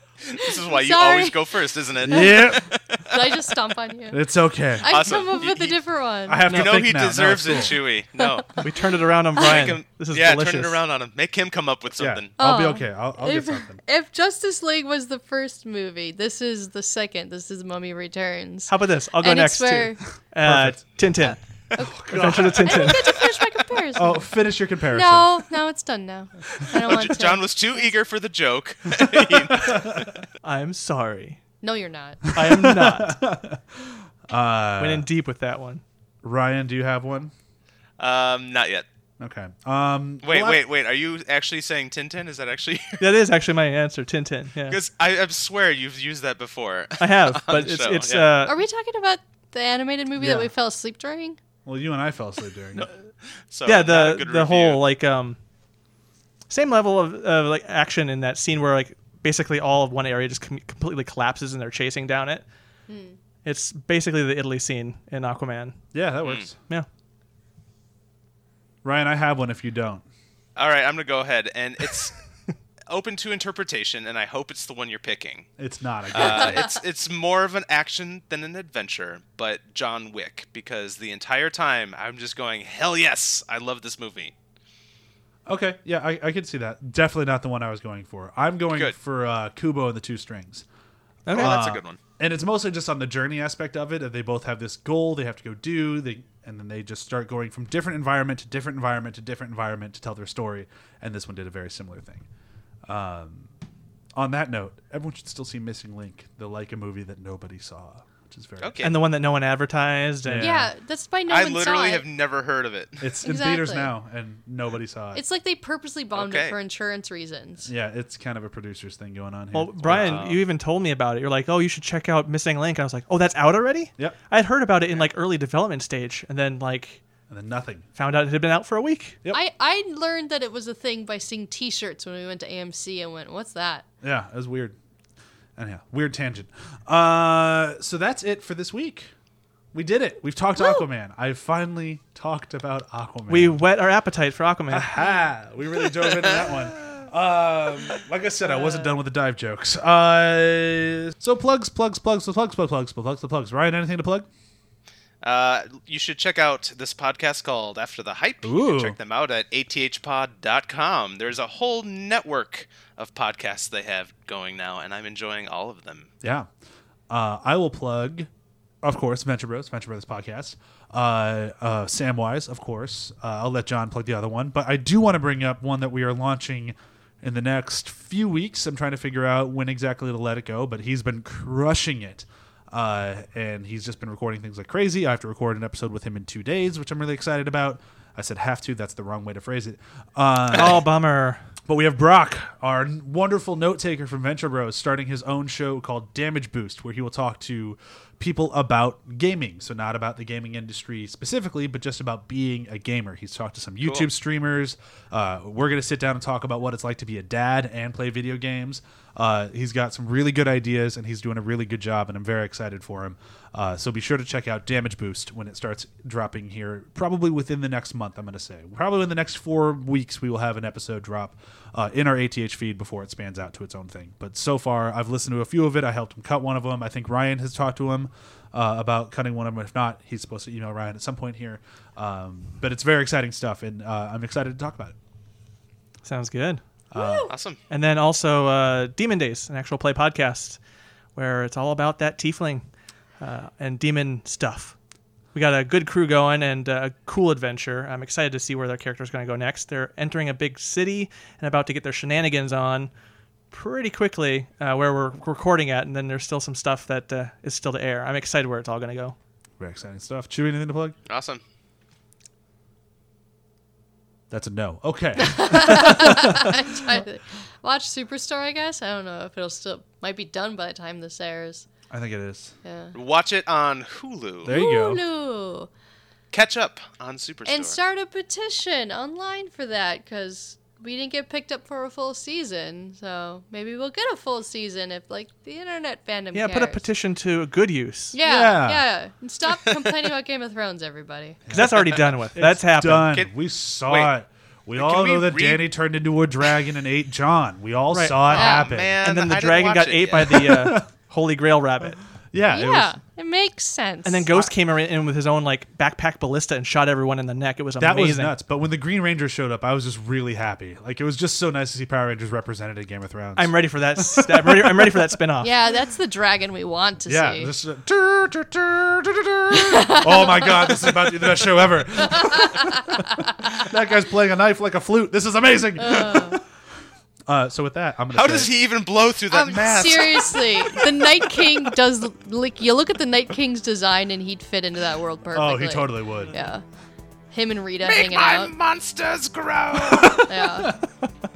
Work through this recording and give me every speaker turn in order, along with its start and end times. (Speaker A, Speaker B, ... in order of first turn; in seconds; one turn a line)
Speaker A: 0.3-3.5
Speaker B: 0.4-1.4
Speaker C: 2.0-2.8
Speaker B: 2.1-2.5
Speaker B: 3.1-4.2
Speaker C: 4.1-4.9
Speaker B: 4.7-6.6
Speaker A: 4.9-5.8
Speaker C: 6.3-7.8
Speaker A: 6.5-8.6
Speaker B: 8.2-8.6
Speaker D: 8.6-10.8
Speaker A: 9.3-12.3
Speaker B: 9.4-9.7
Speaker C: 12.0-13.8
Speaker B: 12.4-20.0
Speaker D: 18.7-21.4
Speaker C: 20.4-20.8
Speaker B: 21.2-24.3
Speaker C: 21.8-23.2
Speaker D: 22.1-23.2
Speaker C: 23.9-25.4
Speaker B: 24.9-27.5
Speaker A: 26.7-30.2
Speaker C: 29.2-30.1
Speaker D: 30.4-31.4
Speaker B: 31.6-32.2
Speaker C: 32.2-35.1
Speaker D: 32.3-33.2
Speaker D: 34.8-35.8
Speaker C: 36.2-37.3
Speaker A: 38.0-38.9
Speaker C: 39.2-40.6
Speaker A: 40.2-43.1
Speaker D: 43.0-44.8
Speaker A: 44.7-48.3
Speaker D: 47.0-48.5
Speaker B: 48.4-51.4
Speaker C: 50.2-50.5
Speaker C: 51.6-52.9
Speaker A: 53.5-54.8
Speaker D: 53.6-55.4
Speaker D: 56.5-62.4
Speaker B: 62.9-63.1
Speaker D: 63.4-65.8
Speaker C: 65.9-66.6
Speaker C: 68.8-70.0
Speaker A: 70.5-72.2
Speaker A: 72.9-75.5
Speaker C: 75.6-76.7
Speaker A: 76.1-84.3
Speaker B: 76.2-76.8
Speaker C: 85.5-90.6
Speaker D: 91.2-91.6
Speaker A: 91.3-92.0
Speaker C: 91.3-102.2
Speaker C: 102.8-103.5
Speaker C: 104.2-108.8
Speaker A: 108.6-109.0
Speaker D: 108.8-110.5
Speaker C: 110.2-110.7
Speaker B: 110.4-112.0
Speaker A: 111.3-113.0
Speaker C: 113.0-115.2
Speaker B: 113.2-113.9
Speaker B: 115.1-117.7
Speaker A: 116.1-116.5
Speaker C: 117.7-120.3
Speaker D: 119.5-127.0
Speaker A: 119.8-120.4
Speaker C: 127.3-127.9
Speaker D: 128.0-129.2
Speaker B: 129.3-133.8
Speaker C: 134.0-134.8
Speaker C: 135.6-139.1
Speaker C: 139.7-143.6
Speaker D: 143.3-144.9
Speaker C: 144.7-154.3
Speaker A: 146.0-146.4
Speaker A: 155.2-166.1
Speaker C: 158.4-159.0
Speaker C: 166.2-166.5
Speaker C: 167.1-168.3
Speaker C: 168.8-190.8
Speaker D: 190.5-191.5
Speaker C: 191.7-234.9
Speaker D: 236.0-236.6
Speaker C: 236.9-237.3
Speaker B: 236.9-237.3
Speaker A: 237.3-237.6
Speaker D: 237.7-240.6
Speaker D: 241.1-242.7
Speaker D: 243.2-244.8
Speaker D: 245.3-252.9
Speaker D: 253.5-259.1
Speaker C: 259.6-260.9
Speaker A: 261.1-261.4
Speaker C: 264.3-266.6
Speaker B: 265.2-271.7
Speaker C: 271.9-272.5
Speaker B: 272.6-272.9
Speaker A: 272.9-274.6
Speaker C: 274.4-275.0
Speaker B: 274.5-275.7
Speaker A: 276.3-277.8
Speaker B: 277.4-286.9
Speaker D: 286.3-288.2
Speaker B: 288.1-291.4
Speaker C: 288.2-288.8
Speaker C: 291.4-299.0
Speaker D: 291.5-293.1
Speaker A: 291.8-292.1
Speaker A: 293.8-294.1
Speaker A: 294.7-295.7
Speaker D: 297.9-298.5
Speaker A: 298.3-300.5
Speaker B: 298.3-298.7
Speaker D: 299.0-302.0
Speaker C: 300.2-300.9
Speaker C: 302.3-302.9
Speaker B: 302.5-304.3
Speaker D: 304.0-308.3
Speaker C: 307.8-315.0
Speaker D: 313.4-315.5
Speaker B: 315.4-317.5
Speaker C: 317.1-326.4
Speaker B: 319.5-320.9
Speaker B: 322.1-323.6
Speaker B: 325.8-326.4
Speaker C: 327.3-328.5
Speaker A: 328.1-331.1
Speaker B: 329.3-336.6
Speaker C: 335.3-336.3
Speaker B: 337.3-338.5
Speaker A: 337.8-340.2
Speaker C: 339.9-340.8
Speaker B: 340.2-340.8